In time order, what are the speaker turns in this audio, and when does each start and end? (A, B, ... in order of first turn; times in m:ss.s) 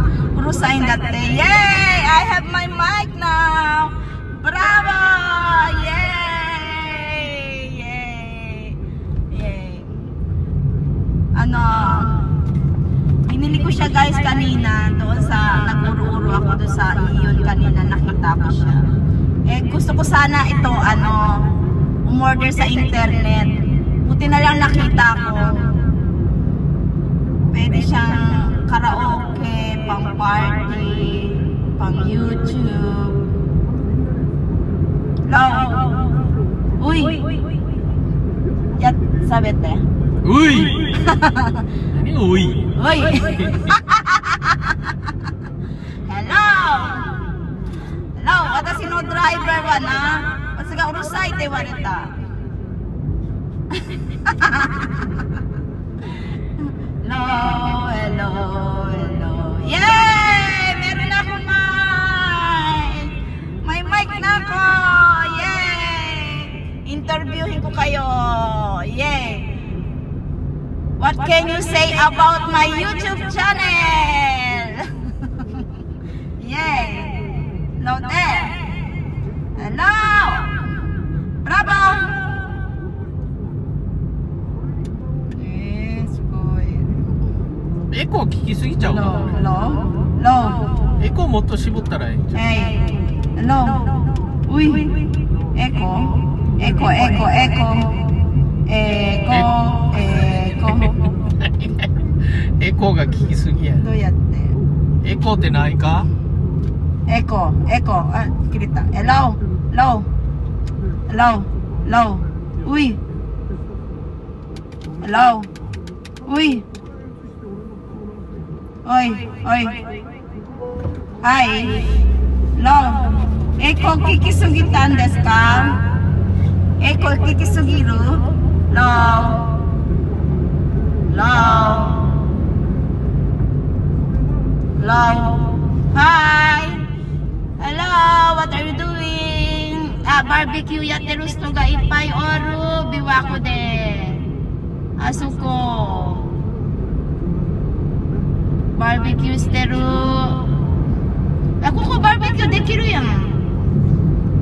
0:00.3-0:08.8 A
0:09.3-0:10.1 A
0:11.4-0:12.2 A
0:13.3-0:18.9 A
0:19.5-0:25.9 A
0:27.5-0:33.3 A
0:35.3-0:35.9 A
0:36.8-0:37.2 A
0:38.8-0:39.8 A
0:40.2-0:40.9 B
0:41.0-0:41.5 A
0:41.9-0:43.6 B
0:42.8-0:44.6 A
0:46.1-0:47.2 A
0:48.2-0:52.1 A
0:54.2-0:55.1 A
0:57.0-1:03.1 A
1:03.6-1:09.5 A
1:11.0-1:14.9 A
1:16.4-1:17.2 A
1:17.8-1:18.6 A
1:19.6-1:20.5 A
1:21.4-1:22.2 A
1:25.3-1:26.9 A
1:27.9-1:29.4 B
1:28.8-1:30.7 A
1:31.0-1:32.4 B
1:32.3-1:33.9 A
1:34.5-1:34.9 A
1:35.6-1:38.1 A
1:38.7-1:41.2 A
1:41.0-1:43.8 B
1:43.8-1:44.6 A
1:45.0-1:46.1 B
1:47.1-1:50.1 A
1:51.1-1:53.0 A
1:55.0-1:55.5 A
1:56.3-1:56.6 A
1:58.8-1:59.8 A
2:01.2-2:02.0 A
2:02.6-2:05.8 A
2:06.8-2:09.5 A
2:11.1-2:12.2 A
2:14.8-2:16.9 A
2:17.6-2:24.3 A
2:25.0-2:26.4 A
2:28.8-2:30.5 A
2:31.6-2:33.4 A